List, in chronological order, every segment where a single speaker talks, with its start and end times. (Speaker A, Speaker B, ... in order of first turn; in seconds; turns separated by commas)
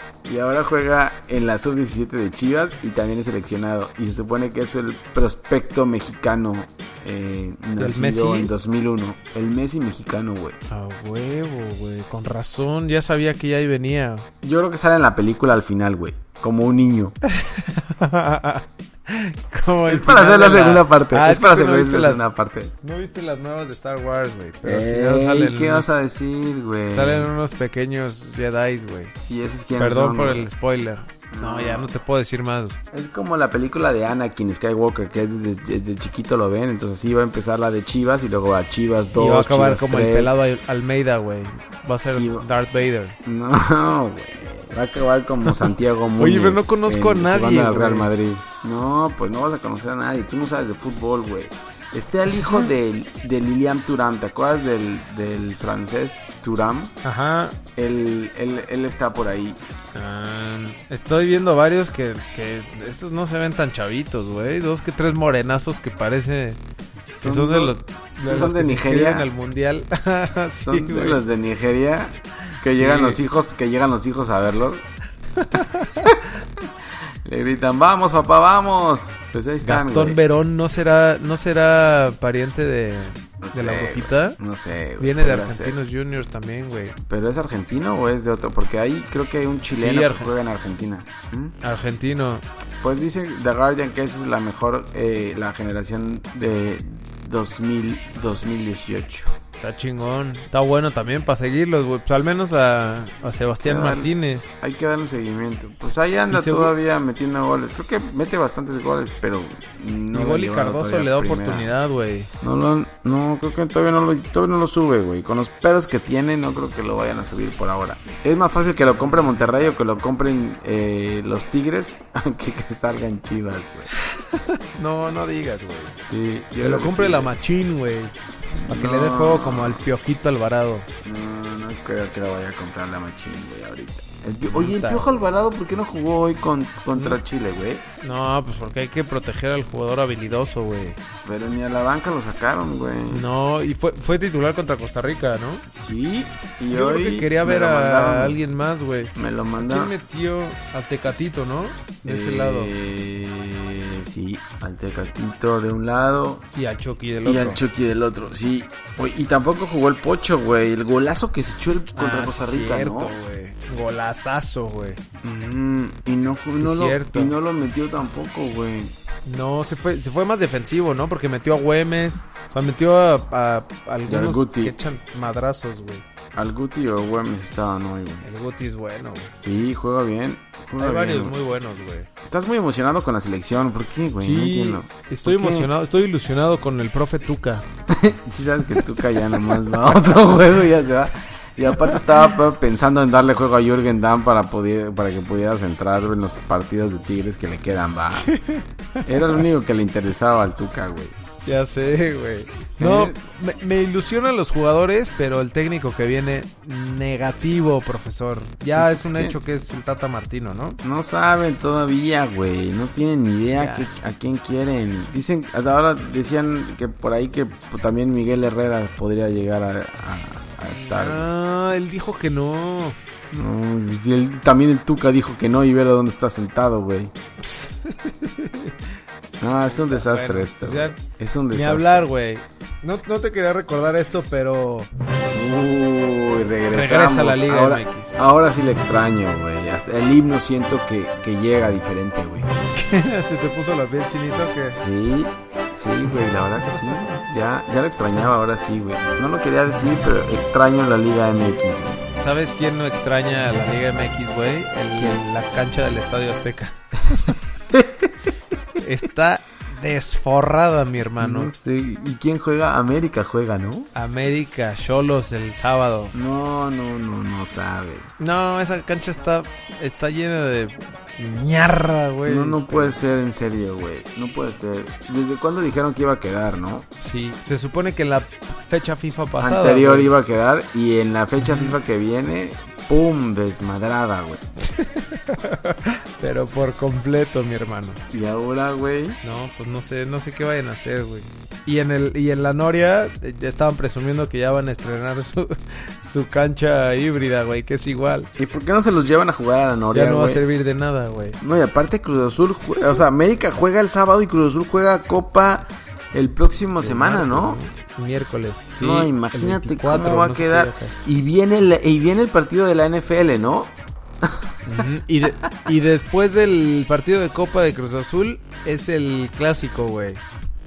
Speaker A: 0.2-10.6, Speaker B: 7.8-8.5, Speaker B: 10.7-14.3, Speaker A: 14.4-17.1, Speaker B: 17.3-22.3, Speaker A: 19.9-22.7, Speaker B: 22.8-25.9, Speaker A: 24.6-27.3, Speaker B: 26.9-29.1, Speaker A: 29.3-30.5, Speaker B: 29.8-32.8, Speaker A: 31.3-31.9, Speaker A: 32.9-40.3, Speaker B: 39.1-43.1, Speaker A: 42.1-42.4, Speaker A: 43.2-56.9, Speaker B: 45.5-48.1, Speaker B: 57.0-57.6, Speaker A: 57.8-59.6, Speaker B: 59.9-66.6, Speaker A: 67.1-69.3, Speaker B: 67.2-71.2, Speaker A: 70.6-74.8, Speaker B: 72.6-73.2, Speaker B: 75.4-76.1, Speaker A: 76.0-76.7, Speaker A: 77.2-80.2, Speaker B: 79.6-84.4, Speaker A: 83.4-85.8, Speaker B: 85.0-87.0, Speaker A: 87.0-91.5, Speaker B: 89.8-90.3, Speaker B: 91.6-92.4, Speaker A: 92.8-99.3, Speaker B: 99.6-104.5, Speaker A: 103.6-111.7, Speaker B: 106.3-106.7, Speaker B: 110.1-112.3, Speaker A: 112.4-123.9, Speaker B: 118.8-119.7, Speaker B: 123.9-125.9, Speaker A: 126.1-127.3, Speaker B: 126.6-128.1, Speaker A: 128.6-129.9, Speaker B: 128.7-130.9, Speaker A: 131.0-137.8, Speaker B: 134.4-135.2, Speaker B: 136.9-137.2, Speaker B: 138.0-141.0, Speaker A: 141.2-143.2, Speaker B: 143.1-145.6, Speaker A: 145.8-148.4, Speaker B: 146.7-152.7, Speaker A: 149.1-149.9, Speaker A: 152.0-156.5, Speaker B: 156.5-157.6, Speaker A: 157.2-163.2, Speaker B: 161.9-165.0, Speaker A: 165.2-168.9, Speaker B: 166.6-167.3, Speaker B: 169.2-176.0, Speaker A: 174.1-174.8, Speaker A: 176.3-178.3, Speaker B: 178.2-179.3, Speaker A: 179.4-181.3, Speaker B: 180.8-182.1, Speaker A: 182.2-185.7, Speaker B: 184.2-187.6, Speaker A: 187.9-198.3, Speaker B: 198.2-199.1, Speaker A: 199.0-201.3, Speaker B: 201.4-210.8, Speaker A: 202.8-203.2, Speaker A: 208.8-209.4, Speaker A: 210.8-221.2, Speaker B: 213.5-213.9, Speaker B: 220.7-223.0, Speaker A: 223.3-227.1, Speaker B: 227.4-228.9, Speaker A: 229.4-232.1, Speaker B: 229.9-231.0, Speaker B: 231.5-234.9, Speaker A: 235.3-242.5, Speaker B: 236.7-238.2, Speaker B: 242.7-244.8, Speaker A: 244.7-252.0, Speaker B: 252.2-257.4, Speaker A: 254.9-255.2, Speaker A: 257.7-258.1, Speaker B: 258.8-261.5, Speaker A: 261.2-263.9, Speaker B: 263.9-266.1, Speaker A: 266.1-268.1, Speaker B: 268.2-272.9, Speaker A: 272.2-276.9, Speaker B: 277.0-280.1, Speaker A: 279.4-284.4, Speaker B: 281.4-281.7, Speaker B: 284.6-288.0, Speaker A: 288.1-289.2, Speaker B: 289.2-298.3, Speaker A: 298.4-300.4, Speaker B: 299.9-301.4, Speaker A: 301.4-307.6, Speaker B: 306.8-310.9, Speaker A: 308.7-314.5, Speaker B: 314.6-320.2, Speaker A: 315.4-315.7